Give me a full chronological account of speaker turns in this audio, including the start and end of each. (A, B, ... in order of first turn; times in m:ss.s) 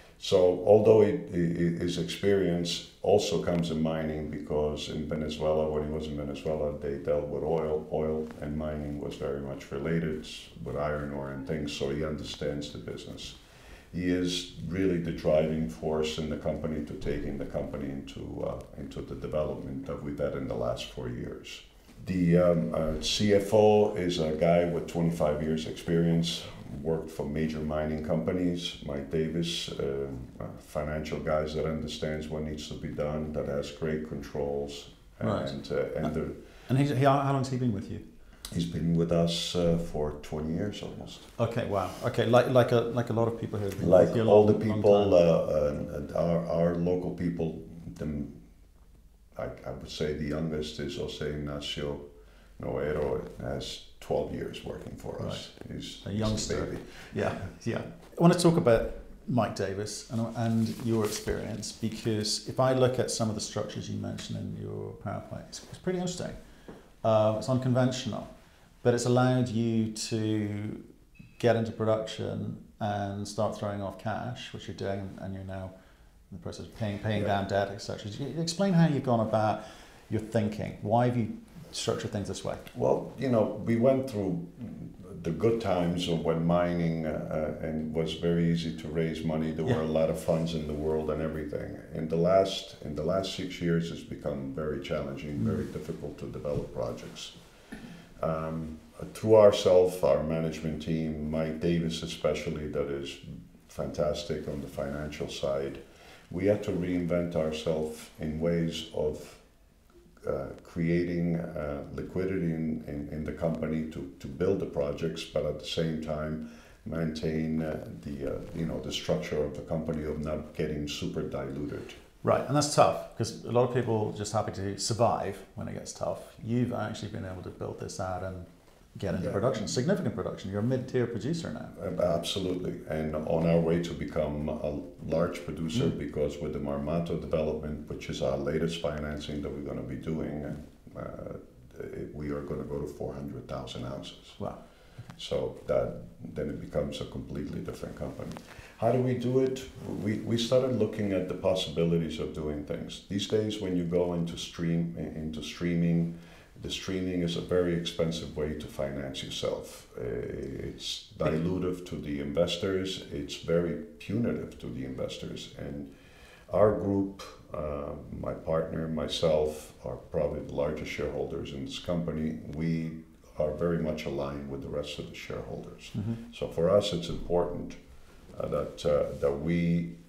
0:00.2-0:13.4 A
0:13.9-0:36.4 A
0:35.2-0:36.1 B
0:36.7-0:38.0 B
0:38.5-0:41.3 A
0:41.4-0:45.2 B
0:43.8-0:48.4 A
0:49.4-0:52.0 A
0:52.6-0:57.3 A
0:55.2-0:55.4 B
0:56.0-1:06.4 B
1:07.0-1:08.3 B
1:08.8-1:15.7 B
1:16.3-1:22.7 B
1:22.7-1:37.4 A
1:38.2-1:49.4 A
1:50.2-2:02.0 A
2:02.2-2:11.8 B
2:09.2-2:09.8 A
2:11.8-2:24.4 A
2:25.2-2:45.9 A
2:46.5-2:57.8 A
2:56.0-2:56.2 B
2:58.3-2:59.9 A